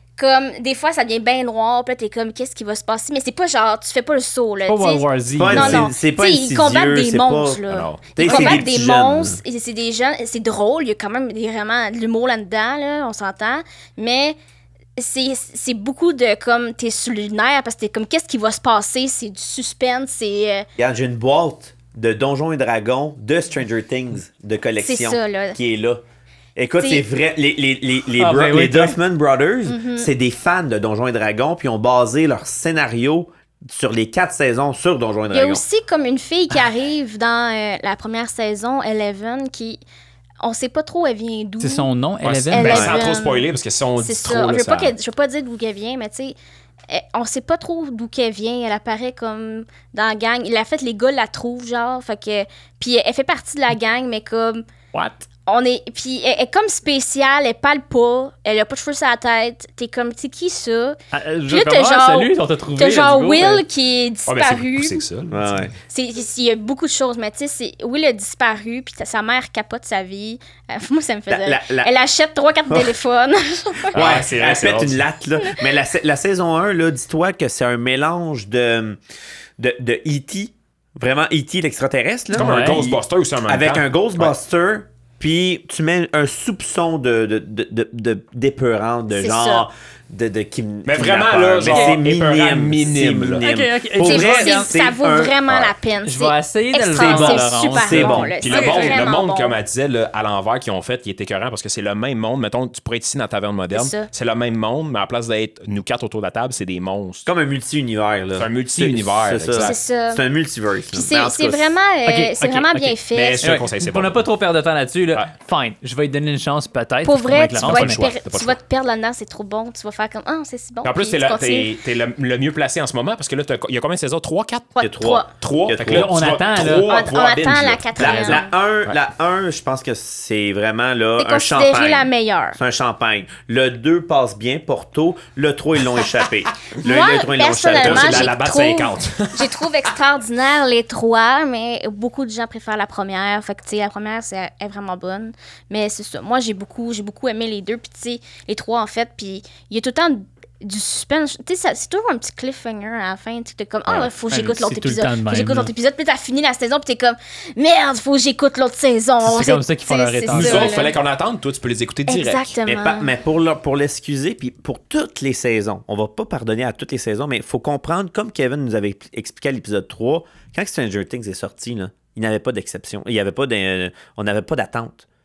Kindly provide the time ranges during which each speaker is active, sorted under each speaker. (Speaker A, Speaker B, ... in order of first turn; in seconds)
Speaker A: 0.2-14.4, 15.0-20.7, 24.8-25.6, 26.8-27.0, 29.7-30.1, 35.3-39.8, 40.4-41.9, 42.5-43.5, 44.0-46.4, 46.9-54.6, 55.5-61.0, 61.5-65.1, 65.9-74.0, 89.1-89.7, 94.0-99.6, 103.7-104.1, 109.6-110.2, 110.9-113.5, 117.0-121.7, 124.8-125.3, 126.8-128.5, 131.2-132.6, 136.8-160.9, 162.1-163.1
Speaker B: 4.7-5.8, 28.2-29.0, 41.6-42.8, 54.9-55.3, 61.1-63.6, 82.4-82.8, 91.6-92.0, 93.4-94.7, 96.0-99.0, 112.0-118.0, 125.9-126.9, 154.3-155.7, 159.2-160.8
Speaker C: 5.4-7.6, 8.1-9.4, 20.8-26.0, 26.6-35.6, 42.6-43.0, 65.3-65.7, 71.3-71.9, 73.9-79.0, 79.6-95.4, 97.0-98.3, 107.3-111.8, 124.8-126.1, 128.0-138.3, 162.7-175.1
Speaker D: 7.7-8.2, 42.2-44.9, 64.3-65.4, 73.9-75.0, 82.3-84.3, 90.9-93.4, 98.4-107.3, 108.4-109.8, 113.1-114.2, 117.6-118.6, 120.8-124.7, 125.4-128.2, 137.7-139.7, 160.3-162.6